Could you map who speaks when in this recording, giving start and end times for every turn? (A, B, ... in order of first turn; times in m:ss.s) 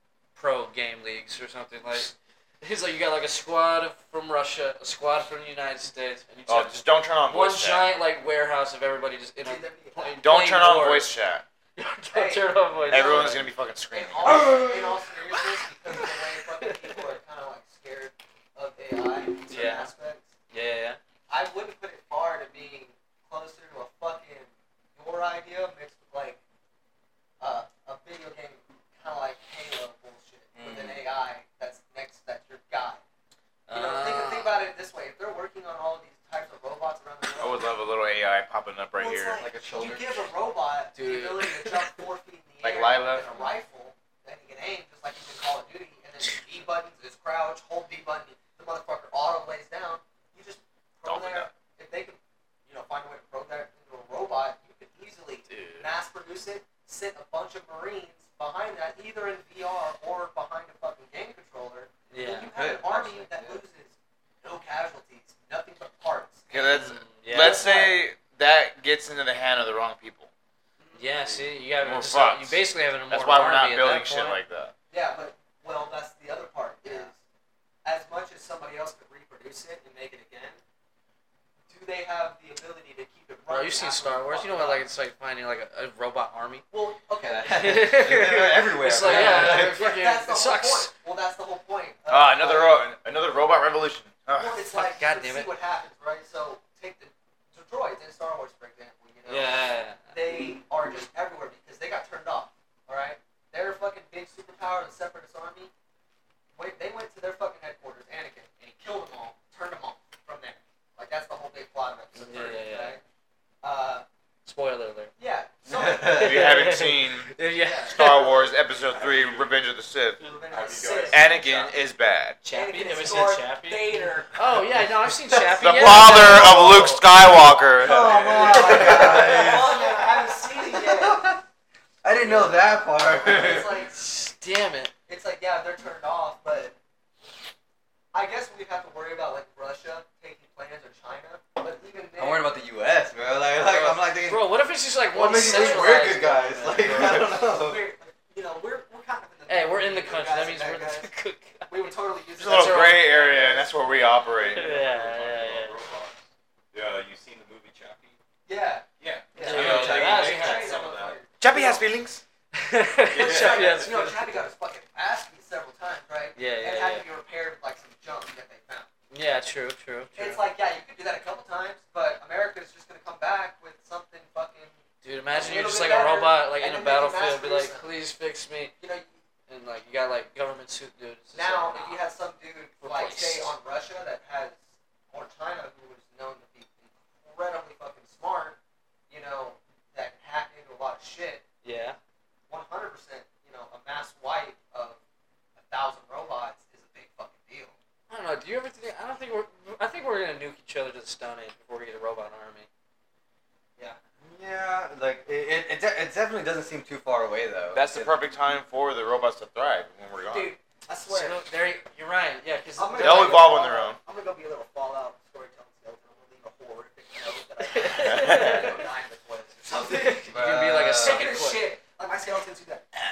0:00.4-0:11.1 A
0:06.5-0:07.8 B
0:09.4-0:10.2 C
0:10.2-0:11.4 B
0:11.8-0:13.5 A
0:12.1-0:20.3 C
0:12.9-0:14.6 B
0:14.3-0:15.0 D
0:16.6-0:17.1 A
0:19.5-0:19.9 A
0:20.5-0:21.0 A
0:21.3-0:26.4 C
0:27.4-0:33.0 C
0:30.5-0:31.0 D
0:33.7-0:34.6 A
0:33.7-0:37.7 C
0:37.4-0:39.4 B
0:39.0-1:06.8 C
0:39.4-0:40.3 D
0:41.0-0:42.0 A
0:42.6-0:43.4 B
0:51.0-0:51.5 B
0:55.5-0:55.9 A
1:02.1-1:02.5 A
1:02.5-1:03.6 D
1:06.5-1:10.3 B
1:06.6-1:07.6 A
1:07.3-1:08.0 C
1:10.8-1:11.4 C
1:11.0-1:14.4 A
1:11.8-1:14.7 B
1:14.9-1:17.2 C
1:17.8-1:20.6 C
1:21.7-1:24.9 C
1:23.5-1:26.7 A
1:26.7-1:28.3 C
1:27.2-1:29.8 D
1:27.5-1:30.9 A
1:29.0-1:32.8 C
1:32.1-1:34.6 B
1:34.3-1:45.7 C
1:34.7-1:35.5 A
1:39.3-1:40.1 A
1:46.6-1:53.0 C
1:52.1-1:53.0 A
1:53.6-1:54.1 C
1:54.4-1:55.1 A
1:55.2-1:56.4 C
1:55.7-1:56.4 D
1:56.1-2:00.2 B
1:56.2-1:58.3 A
1:57.5-1:58.8 C
1:58.9-1:59.5 E
2:00.2-2:01.8 E
2:00.2-2:01.2 C
2:01.1-2:02.4 B
2:02.4-2:04.4 C
2:02.4-2:07.0 A
2:04.8-2:05.6 D
2:05.6-2:08.2 B
2:07.3-2:07.6 C
2:07.8-2:08.9 E
2:07.8-2:11.4 D
2:08.2-2:11.3 C
2:08.4-2:09.5 A
2:12.0-2:13.8 D
2:13.0-2:14.0 C
2:13.5-2:14.9 A
2:15.1-2:16.8 C
2:18.1-2:22.5 C
2:22.2-2:24.6 D
2:23.6-2:27.2 A
2:25.1-2:27.8 D
2:25.2-2:26.3 C
2:26.8-2:27.4 E
2:26.9-2:31.1 C
2:29.5-2:33.3 A
2:31.7-2:33.3 C
2:32.4-2:34.7 B
2:33.2-2:38.2 E
2:34.4-2:35.8 A
2:38.5-2:41.9 C
2:39.0-2:41.2 E
2:39.4-2:40.7 A
2:41.4-2:42.2 B
2:42.5-2:44.4 A
2:43.1-2:43.9 E
2:43.2-2:48.9 C
2:46.4-2:47.0 A
2:49.1-2:50.4 A
2:50.1-2:57.9 C
2:55.0-2:58.7 A
2:58.8-2:59.2 C
2:59.5-3:02.0 A
3:01.3-3:08.6 C
3:02.8-3:03.6 A
3:09.1-3:11.4 C
3:11.6-3:12.0 A
3:12.5-3:15.0 C
3:15.6-3:17.8 C
3:18.1-3:22.7 A
3:24.2-3:28.2 D
3:27.7-3:30.5 B
3:30.2-3:31.4 C
3:31.1-3:33.5 A
3:32.8-3:40.3 C
3:33.0-3:34.0 B
3:37.7-3:38.8 A
3:38.0-3:38.7 B
3:39.7-3:41.7 A
3:40.3-3:41.4 D
3:41.0-3:42.9 C